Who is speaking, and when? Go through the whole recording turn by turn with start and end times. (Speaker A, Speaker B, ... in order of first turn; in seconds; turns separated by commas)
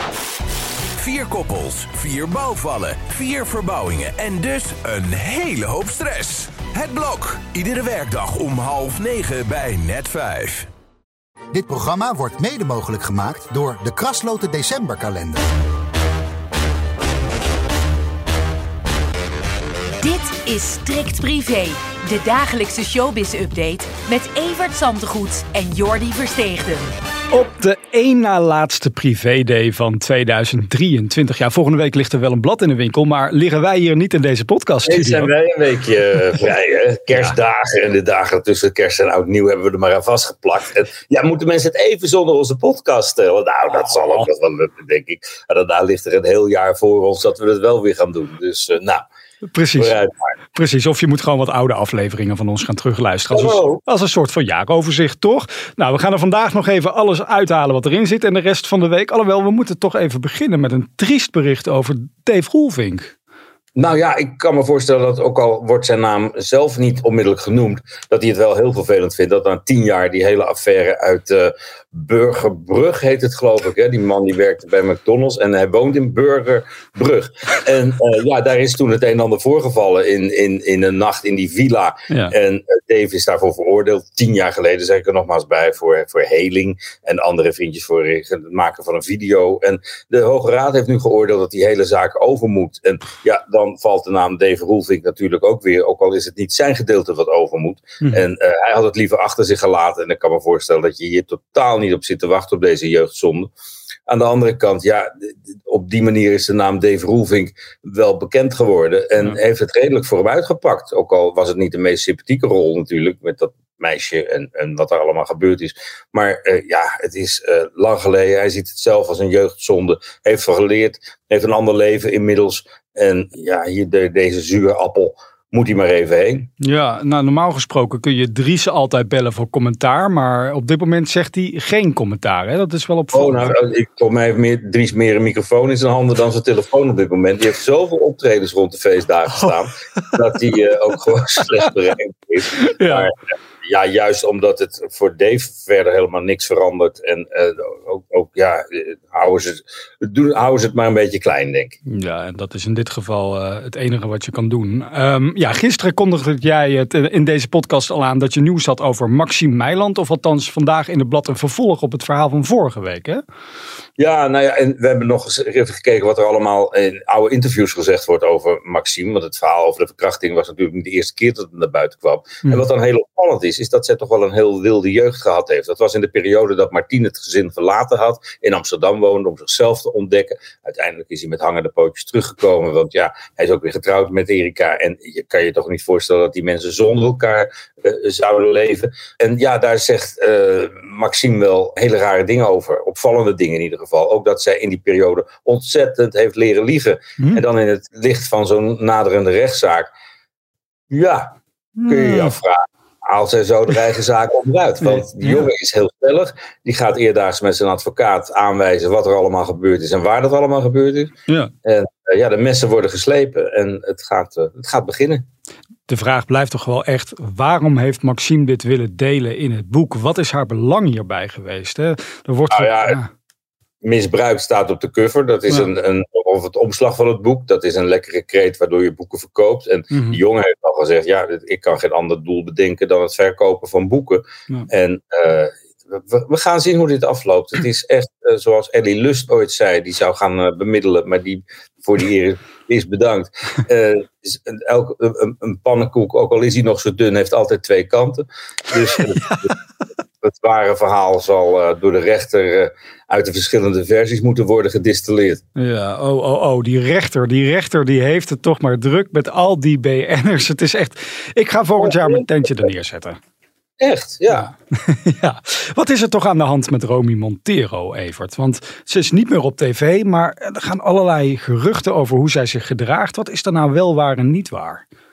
Speaker A: 0.9-10.7, Speaker B: 11.5-15.5, Speaker C: 20.0-26.9, Speaker D: 27.3-35.3, Speaker E: 34.9-49.0, Speaker D: 49.5-50.0, Speaker E: 49.8-50.1, Speaker D: 50.5-63.1, Speaker E: 53.3-53.8, Speaker E: 63.8-103.5, Speaker E: 104.1-126.5, Speaker D: 126.6-133.6, Speaker E: 133.1-143.1, Speaker D: 139.4-140.0, Speaker D: 142.6-143.1, Speaker E: 143.6-151.8, Speaker D: 151.9-163.2, Speaker E: 164.0-199.9, Speaker E: 200.9-201.3, Speaker D: 201.8-202.3, Speaker E: 201.9-211.1, Speaker D: 204.8-205.5, Speaker E: 211.7-215.3, Speaker D: 215.9-223.1, Speaker E: 222.5-223.0, Speaker E: 223.8-249.5, Speaker D: 229.9-230.2, Speaker D: 249.0-249.5, Speaker E: 250.2-255.4, Speaker D: 255.6-263.2, Speaker E: 261.8-262.3, Speaker E: 263.8-264.5, Speaker D: 264.3-274.8